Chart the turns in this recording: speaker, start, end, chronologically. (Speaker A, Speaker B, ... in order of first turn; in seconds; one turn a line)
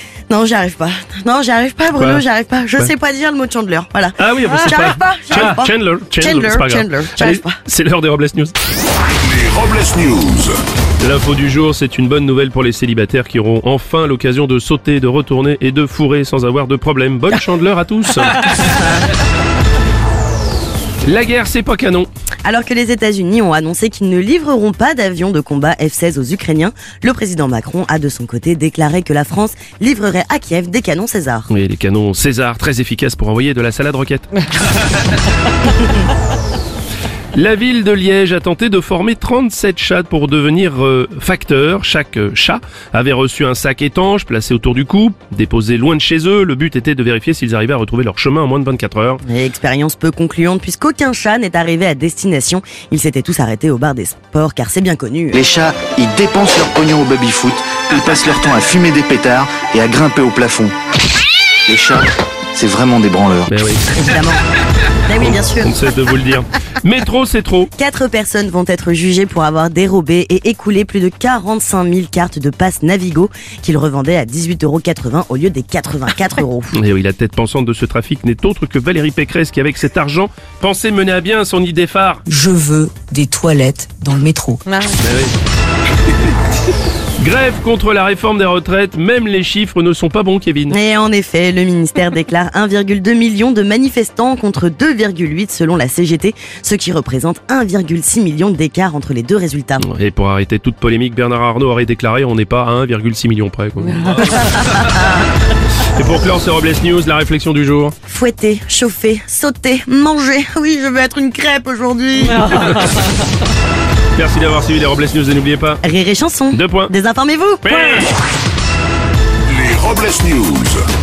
Speaker A: 0.3-7.6
Speaker B: 1.9-2.2
Speaker B: 4.2-8.5
Speaker C: 9.2-10.6
Speaker B: 11.0-18.8
Speaker B: 21.0-22.1
Speaker A: 22.4-31.5
Speaker B: 31.5-34.3
Speaker B: 37.3-49.2
Speaker A: 49.2-55.4
Speaker D: 55.3-60.7
Speaker D: 61.7-63.5
Speaker B: 63.5-63.9
Speaker A: 63.9-64.4
Speaker A: 65.0-65.7
Speaker B: 65.2-67.7
Speaker A: 67.8-76.7
Speaker B: 76.7-82.2
Speaker E: 82.3-84.6
Speaker B: 85.0-85.3
Speaker B: 87.2-90.8
Speaker A: 90.7-99.8
Speaker B: 99.8-104.9
Speaker B: 105.8-108.0
Speaker A: 108.1-112.6
Speaker B: 112.4-113.0
Speaker B: 114.1-115.8
Speaker A: 115.8-118.1
Speaker B: 116.5-116.9
Speaker B: 117.6-118.1
Speaker C: 119.4-120.8